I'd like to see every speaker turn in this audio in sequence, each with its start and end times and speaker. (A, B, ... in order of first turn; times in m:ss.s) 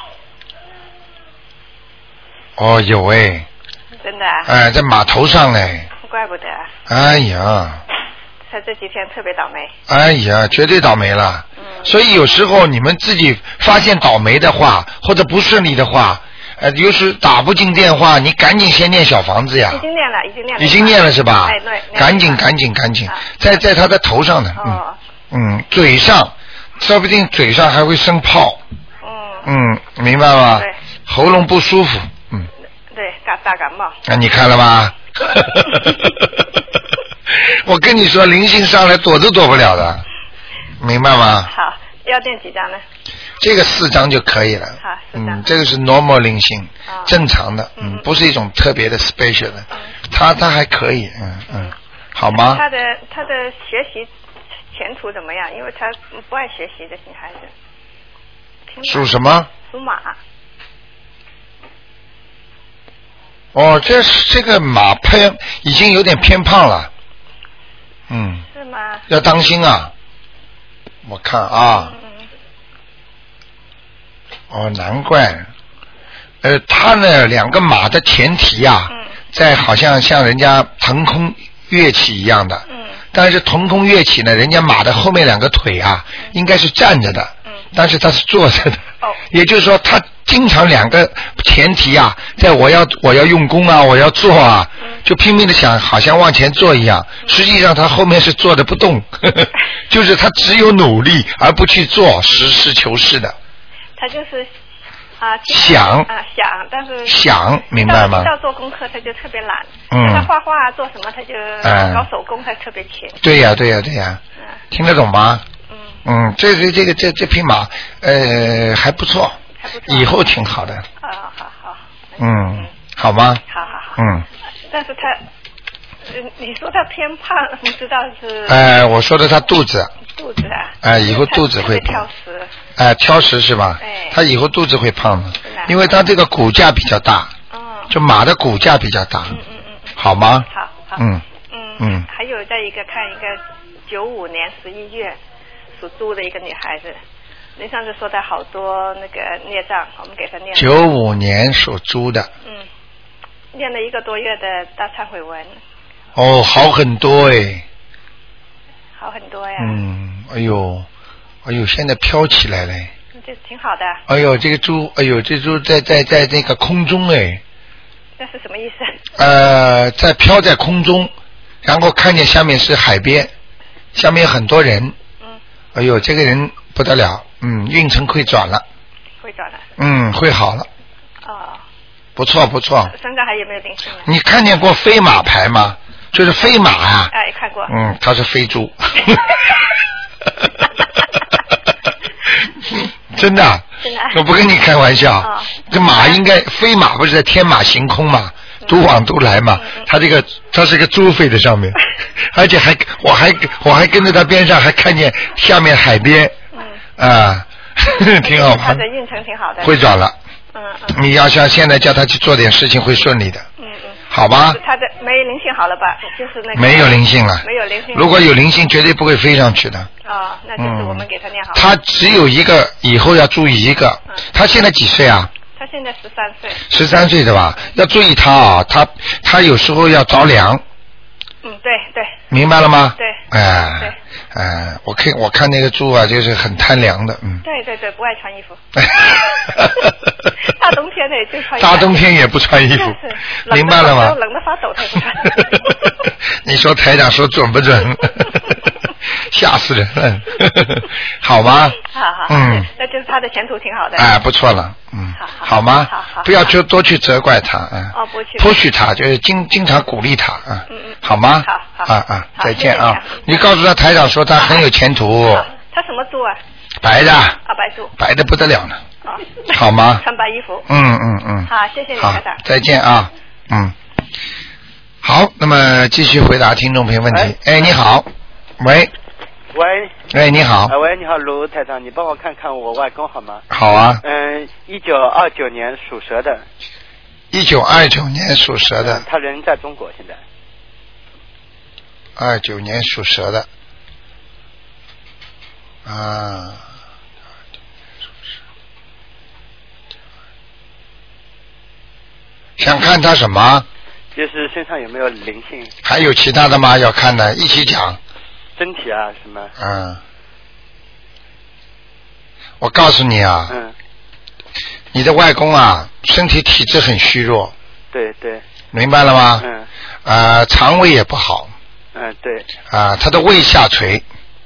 0:02.6-0:03.5 A
0:04.0-0:04.5 B
0:04.4-0:05.9 A
0:06.0-0:06.7 B
0:06.9-0:07.8 A
0:08.5-0:09.7 B
0:09.9-0:19.8 A
0:11.6-0:11.9 B
0:19.7-0:22.4 B
0:20.6-0:28.6 A
0:24.6-0:25.0 B
0:29.0-0:29.5 B
0:29.4-0:32.5 A
0:32.9-0:33.9 B
0:34.1-0:36.4 A
0:37.4-0:40.0 A
0:40.8-0:41.5 A
0:41.4-0:42.8 B
0:43.4-0:52.6 A
0:44.8-0:45.4 B
0:46.9-0:47.1 B
0:47.8-0:48.1 B
0:52.3-0:54.1 B
0:54.7-0:57.5 B
0:58.7-1:00.2 B
0:58.8-0:59.5 A
1:03.5-1:06.9 A
1:08.1-1:08.4 A
1:08.5-1:09.0 B
1:09.1-1:09.9 A
1:11.0-1:11.9 A
1:11.7-1:12.3 B
1:14.5-1:15.5 A
1:16.4-1:43.3 A
1:22.7-1:23.0 B
1:44.0-1:44.5 B
1:45.2-1:47.2 B
1:45.5-1:46.1 A
1:47.0-1:48.3 A
1:47.7-1:53.2 B
1:49.9-1:50.3 A
1:51.6-1:52.0 A
1:53.2-1:54.2 A
1:54.7-1:55.4 A
1:55.7-1:56.0 B
1:56.0-2:00.8 A
1:59.6-2:00.2 B
2:01.0-2:02.7 B
2:02.2-2:03.4 A
2:03.5-2:04.0 B
2:04.0-2:04.2 A
2:04.7-2:05.2 B
2:06.1-2:08.7 B
2:08.5-2:09.9 A
2:10.0-2:12.5 B
2:10.8-2:12.0 A
2:12.8-2:17.3 A
2:13.8-2:14.2 B
2:15.4-2:15.8 B
2:17.5-2:17.9 B
2:17.9-2:19.4 A
2:19.3-2:25.2 B
2:20.0-2:20.4 A
2:21.0-2:21.2 A
2:21.8-2:22.0 A
2:25.8-2:27.0 B
2:27.6-2:30.8 B
2:30.5-2:32.3 A
2:33.5-2:35.6 B
2:36.2-2:37.6 A
2:39.0-2:39.8 B
2:39.6-2:40.9 A
2:41.4-2:42.9 A
2:43.1-2:44.0 B
2:44.1-2:47.4 A
2:48.2-2:49.0 B
2:49.2-2:51.1 A
2:51.6-2:53.3 A
2:53.9-2:54.9 A
2:55.7-2:58.6 A
2:59.2-2:59.6 B
2:59.8-3:00.7 A
3:01.2-3:01.6 B
3:02.2-3:02.9 A
3:02.9-3:04.1 B
3:04.0-3:07.1 A
3:07.1-3:07.7 B
3:07.7-3:09.4 A
3:12.7-3:26.3 A
3:13.8-3:14.2 B
3:15.2-3:16.2 B
3:18.6-3:18.9 B
3:19.5-3:19.9 B
3:26.5-3:26.8 B
3:27.0-3:28.8 A
3:28.2-3:29.8 B
3:29.6-3:30.1 A
3:30.5-3:31.0 B
3:30.9-3:33.4 A
3:33.6-3:38.2 B
3:34.1-3:34.6 A
3:36.5-3:39.9 A
3:40.0-3:41.6 B
3:40.6-3:45.3 A
3:45.5-3:46.6 B
3:46.7-3:50.6 A
3:51.4-3:52.2 B
3:52.3-3:57.4 A
3:53.0-3:53.2 B
3:57.4-3:59.7 B
3:58.8-4:00.3 A
4:00.4-4:02.1 B
4:01.6-4:03.0 A
4:02.7-4:05.9 B
4:03.5-4:04.2 A
4:05.2-4:08.6 A
4:09.3-4:12.7 A
4:11.8-4:14.1 B
4:14.0-4:25.5 A
4:15.2-4:16.5 B
4:17.9-4:18.6 B
4:20.7-4:23.4 B
4:25.5-4:26.4 B
4:26.8-4:27.4 A
4:27.4-4:27.9 B
4:28.0-4:28.8 A
4:29.0-4:30.7 B
4:29.5-4:30.0 A
4:30.7-4:33.7 A
4:31.5-4:32.4 B
4:35.0-4:38.1 A
4:37.1-4:37.4 C
4:38.6-4:38.9 A
4:39.5-4:39.9 C
4:40.1-4:40.7 A
4:40.7-4:43.4 C
4:43.5-4:44.0 A
4:44.0-4:46.4 C
4:47.3-4:49.0 A
4:48.8-4:50.2 C
4:52.2-4:53.5 A
4:55.8-4:56.6 A
5:02.6-5:03.6 A
5:04.1-5:05.7 C
5:05.8-5:08.0 A
5:08.6-5:09.5 C
5:09.6-5:10.0 A
5:12.6-5:13.5 A
5:13.5-5:13.7 C
5:14.9-5:17.5 A
5:17.9-5:18.4 C
5:18.7-5:19.4 A
5:19.4-5:19.7 C
5:20.0-5:21.5 A
5:21.9-5:22.5 C
5:22.7-5:24.0 A